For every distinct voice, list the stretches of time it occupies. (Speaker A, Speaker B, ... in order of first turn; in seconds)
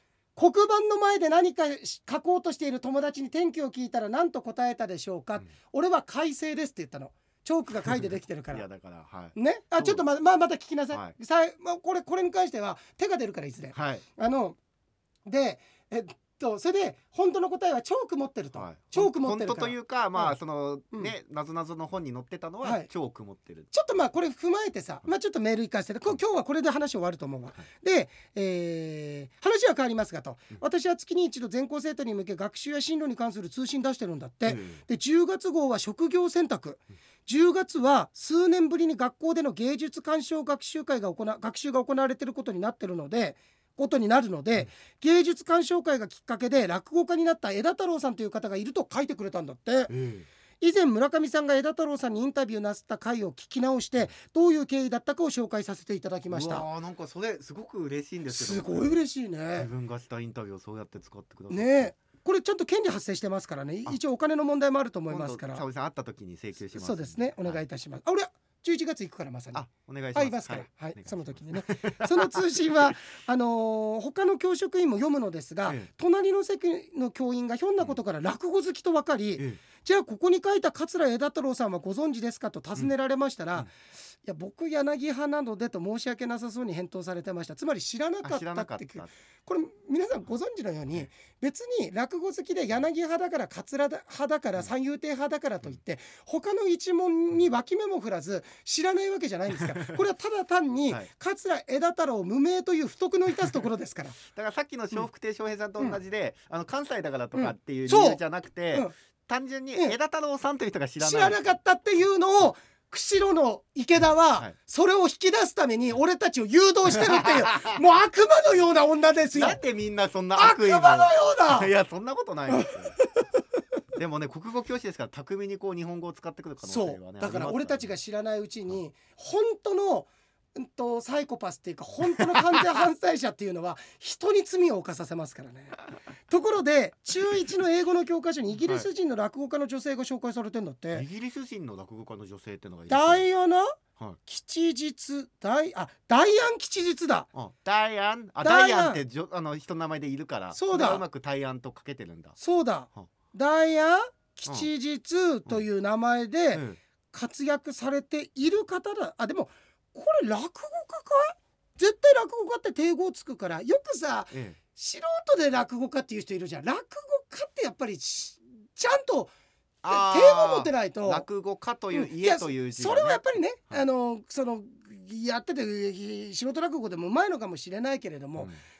Speaker A: 0.4-8.6, 9.3-14.6, 15.3-20.4, 22.6-22.9, 23.7-49.9, 50.6-56.6, 58.3-59.7, 61.5-65.6, 66.7-104.2, 107.3-108.2, 111.0-119.6, 120.4-121.7, 122.5-123.4, 126.6-141.1, 142.9-147.3, 148.4-149.0, 150.5-151.0, 152.4-169.3, 169.9-171.3, 171.9-178.5
Speaker B: 7.9-10.0, 13.7-14.0, 18.5-23.7, 34.5-34.8, 49.9-50.3, 56.3-59.0, 59.5-61.9, 65.1-67.6, 69.5-72.9, 88.2-89.1, 99.5-100.0, 104.3-111.4, 116.9-117.8, 119.3-123.0, 124.0-127.9, 132.1-132.7, 140.9-143.2, 147.3-152.4, 156.5-156.8, 164.3-164.6, 169.8-173.8